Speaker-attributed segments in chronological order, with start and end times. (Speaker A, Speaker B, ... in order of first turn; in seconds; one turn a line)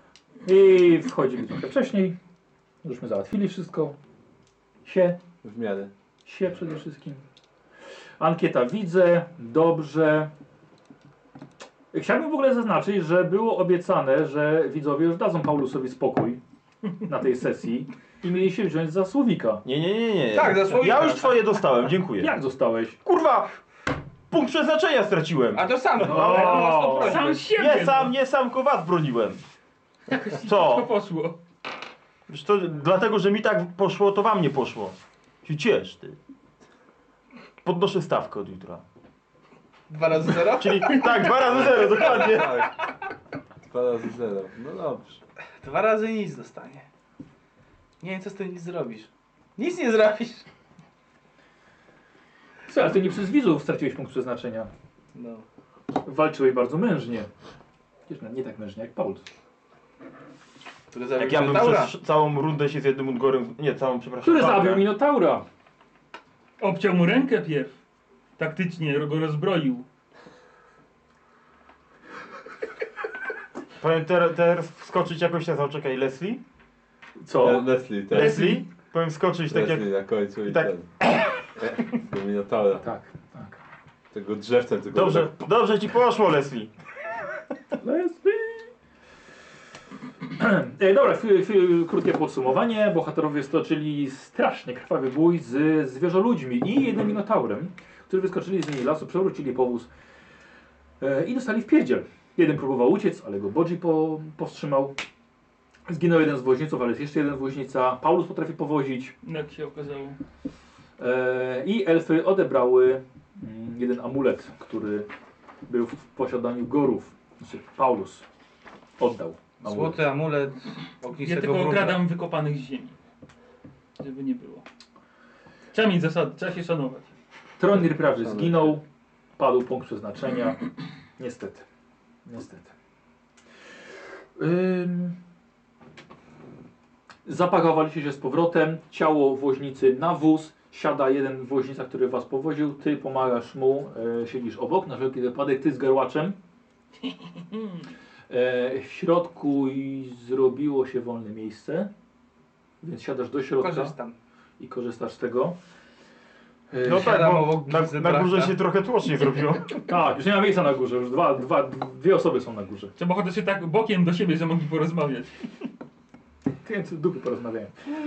Speaker A: 0.4-2.1
Speaker A: 2.8-4.0
Speaker A: 4.8-5.2
Speaker B: 5.4-5.9
Speaker A: 6.2-7.2
Speaker A: 8.2-10.3
Speaker A: 11.9-16.4
Speaker A: 17.0-19.6
Speaker C: 19.6-22.3
Speaker D: 20.3-21.5
Speaker A: 22.2-23.0
Speaker C: 23.0-23.5
Speaker C: 24.3-29.4
Speaker D: 25.5-27.4
Speaker A: 26.0-27.2
Speaker E: 26.9-28.1
Speaker E: 30.1-31.4
Speaker C: 30.4-30.9
Speaker C: 32.3-36.2
Speaker C: 37.6-38.8
Speaker D: 39.9-41.3
Speaker C: 40.5-42.7
Speaker B: 41.5-42.7
Speaker D: 42.0-42.5
Speaker B: 43.6-45.2
Speaker D: 45.6-46.8
Speaker D: 48.0-50.4
Speaker A: 52.7-54.7
Speaker D: 55.1-55.4
Speaker A: 56.0-57.3
Speaker A: 58.1-59.2
Speaker D: 60.9-62.0
Speaker C: 61.1-64.9
Speaker A: 64.2-65.5
Speaker E: 66.6-67.7
Speaker E: 68.4-69.8
Speaker C: 73.8-76.4
Speaker A: 77.2-77.7
Speaker B: 77.4-78.6
Speaker C: 78.1-79.9
Speaker B: 79.5-80.9
Speaker C: 80.4-81.2
Speaker B: 81.5-82.8
Speaker A: 82.8-83.6
Speaker B: 84.1-85.3
Speaker C: 84.9-86.7
Speaker A: 87.8-88.7
Speaker A: 90.4-99.9
Speaker A: 101.0-104.9
Speaker A: 105.9-109.1
Speaker E: 109.2-110.2
Speaker A: 111.0-115.1
Speaker A: 115.7-118.2
Speaker A: 119.0-120.0
Speaker D: 119.6-122.0
Speaker E: 121.2-123.0
Speaker E: 124.0-124.6
Speaker E: 125.7-127.1
Speaker A: 127.6-128.8
Speaker B: 127.7-128.7
Speaker A: 129.4-130.6
Speaker A: 131.2-131.6
Speaker A: 132.2-132.7
Speaker A: 134.3-135.2
Speaker A: 137.2-146.3
Speaker A: 148.3-151.9
Speaker A: 152.8-153.9
Speaker D: 153.6-154.1
Speaker A: 154.6-155.6
Speaker A: 156.7-157.3
Speaker C: 156.8-159.8
Speaker D: 156.9-158.6
Speaker A: 159.8-162.9
Speaker E: 163.0-165.3
Speaker A: 166.6-167.7